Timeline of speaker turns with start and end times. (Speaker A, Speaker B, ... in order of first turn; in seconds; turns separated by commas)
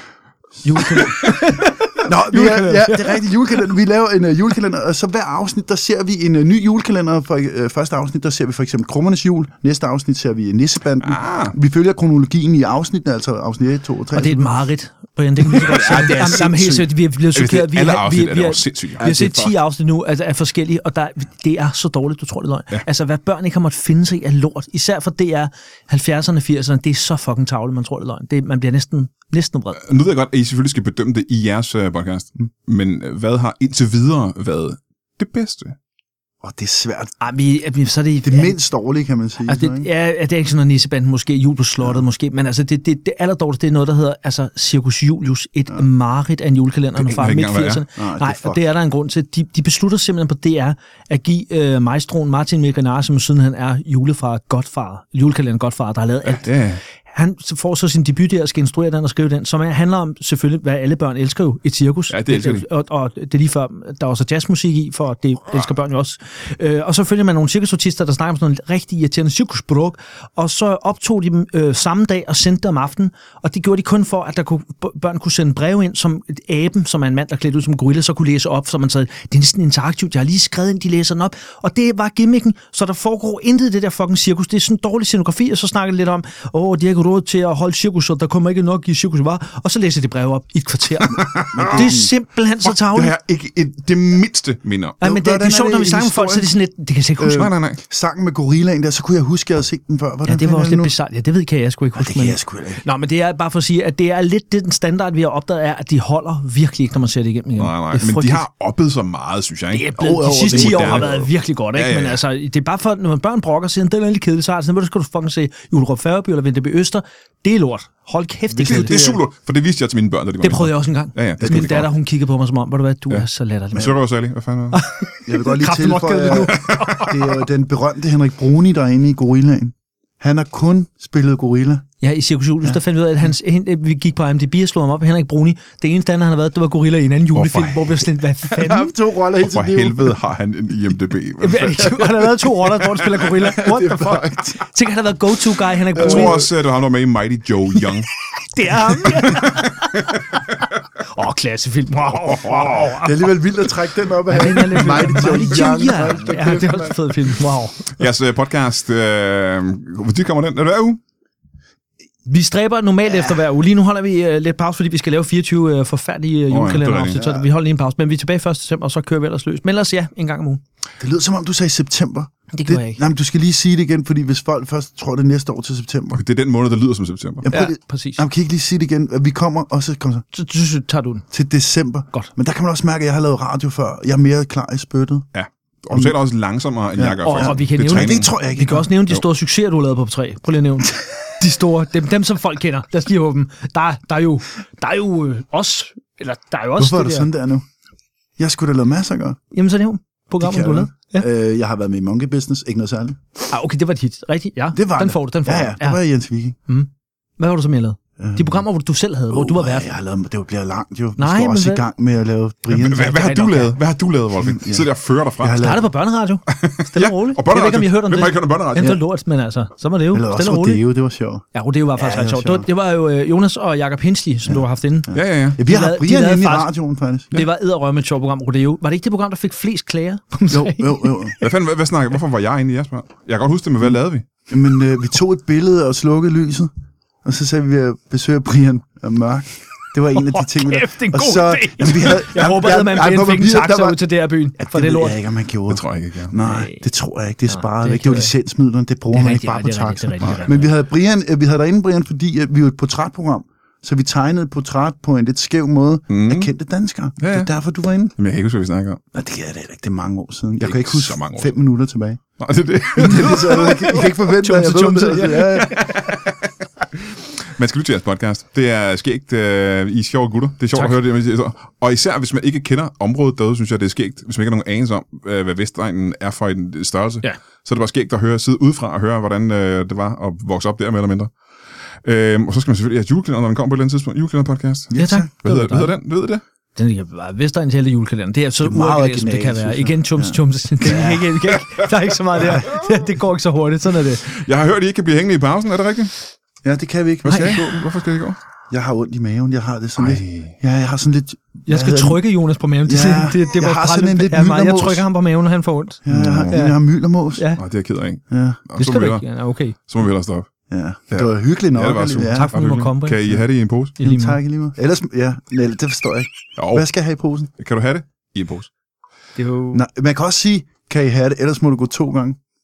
Speaker A: 0.6-1.2, Speaker B: 0.6-3.7, Speaker A: 2.0-14.6, Speaker C: 11.0-11.6, Speaker B: 14.1-29.8, Speaker A: 15.5-16.9, Speaker C: 15.6-16.8, Speaker C: 17.3-19.5, Speaker A: 19.0-19.4, Speaker C: 29.8-35.8, Speaker A: 36.4-37.1, Speaker B: 37.2-38.5, Speaker A: 38.2-39.9, Speaker B: 39.5-56.5, Speaker C: 47.0-47.8, Speaker A: 47.9-48.6, Speaker C: 56.2-56.8, Speaker B: 57.1-93.2, Speaker C: 62.1-62.7, Speaker A: 91.1-92.1, Speaker C: 91.1-91.9, Speaker C: 92.6-95.0, Speaker A: 95.0-96.5, Speaker B: 95.0-97.5, Speaker A: 97.2-100.9, Speaker C: 97.3-97.8, Speaker B: 100.3-108.5, Speaker A: 102.0-102.8, Speaker C: 107.6-109.9, Speaker B: 109.7-119.1, Speaker A: 110.0-111.3, Speaker C: 110.5-111.1, Speaker C: 111.7-112.2, Speaker C: 118.6-121.9, Speaker A: 118.7-119.2, Speaker B: 120.4-124.0, Speaker A: 121.4-121.8, Speaker C: 123.1-124.8, Speaker B: 124.7-127.4, Speaker A: 125.2-131.9, Speaker C: 126.5-127.0, Speaker B: 132.0-138.9, Speaker C: 137.3-138.0, Speaker A: 138.5-140.2, Speaker C: 139.4-142.1, Speaker B: 141.4-146.5, Speaker A: 143.4-144.7, Speaker A: 145.9-146.5, Speaker C: 145.9-148.1, Speaker B: 148.4-150.2, Speaker C: 149.4-150.2, Speaker B: 151.0-153.3, Speaker C: 152.3-152.9, Speaker A: 152.8-157.2, Speaker B: 154.3-157.9, Speaker C: 158.0-161.0, Speaker B: 162.3-170.6, Speaker A: 163.1-163.4, Speaker C: 166.5-167.2, Speaker A: 167.1-167.5, Speaker A: 171.0-176.2, Speaker B: 172.5-173.0, Speaker C: 176.1-177.5, Speaker A: 177.4-180.2, Speaker B: 177.5-178.2, Speaker B: 180.3-181.3, Speaker A: 181.3-185.3, Speaker C: 185.3-188.3, Speaker A: 187.0-188.9, Speaker B: 187.2-197.3, Speaker A: 196.8-197.7, Speaker A: 198.4-199.4, Speaker B: 199.5-201.3, Speaker A: 200.4-203.2, Speaker B: 203.5-206.0, Speaker A: 204.7-206.6, Speaker B: 206.7-209.9, Speaker A: 208.2-208.6, Speaker A: 209.3-213.1, Speaker B: 211.2-211.9, Speaker C: 212.7-215.6, Speaker B: 212.8-213.7, Speaker A: 214.4-214.9, Speaker A: 215.4-215.9, Speaker B: 215.6-220.8, Speaker C: 216.5-219.0, Speaker A: 220.1-222.7, Speaker B: 221.5-226.7, Speaker A: 224.5-227.3, Speaker C: 225.1-225.6, Speaker B: 227.3-231.4, Speaker A: 230.5-231.4, Speaker C: 231.4-234.2, Speaker A: 234.5-236.7, Speaker A: 237.2-244.0, Speaker B: 240.1-245.2, Speaker A: 244.6-258.1, Speaker C: 245.7-246.3, Speaker B: 246.4-246.8, Speaker B: 247.5-248.3, Speaker B: 249.1-250.7, Speaker C: 256.1-256.5, Speaker C: 257.2-257.5, Speaker C: 258.2-259.0, Speaker A: 259.1-262.2, Speaker C: 260.6-261.5, Speaker C: 262.4-264.0, Speaker A: 262.9-265.8, Speaker B: 263.4-266.1, Speaker C: 265.8-266.4, Speaker C: 267.5-281.3, Speaker C: 282.0-286.4, Speaker A: 284.9-285.3, Speaker B: 285.0-285.9, Speaker B: 286.8-294.3, Speaker A: 288.6-291.4, Speaker C: 294.3-296.1, Speaker A: 296.6-297.7, Speaker B: 297.2-297.6, Speaker C: 297.3-298.4, Speaker A: 298.7-302.2, Speaker C: 300.0-300.6, Speaker B: 301.7-306.8, Speaker A: 302.9-305.1, Speaker A: 306.1-307.5, Speaker C: 306.1-306.6, Speaker B: 307.4-307.6, Speaker C: 307.6-309.2, Speaker A: 308.3-308.6, Speaker B: 308.8-309.8, Speaker C: 309.9-310.5, Speaker A: 310.7-312.5, Speaker C: 311.1-314.0, Speaker B: 312.2-313.4, Speaker B: 314.0-314.4, Speaker A: 314.0-317.5, Speaker C: 316.6-316.9, Speaker C: 317.6-318.7, Speaker B: 319.4-319.9, Speaker A: 319.7-322.4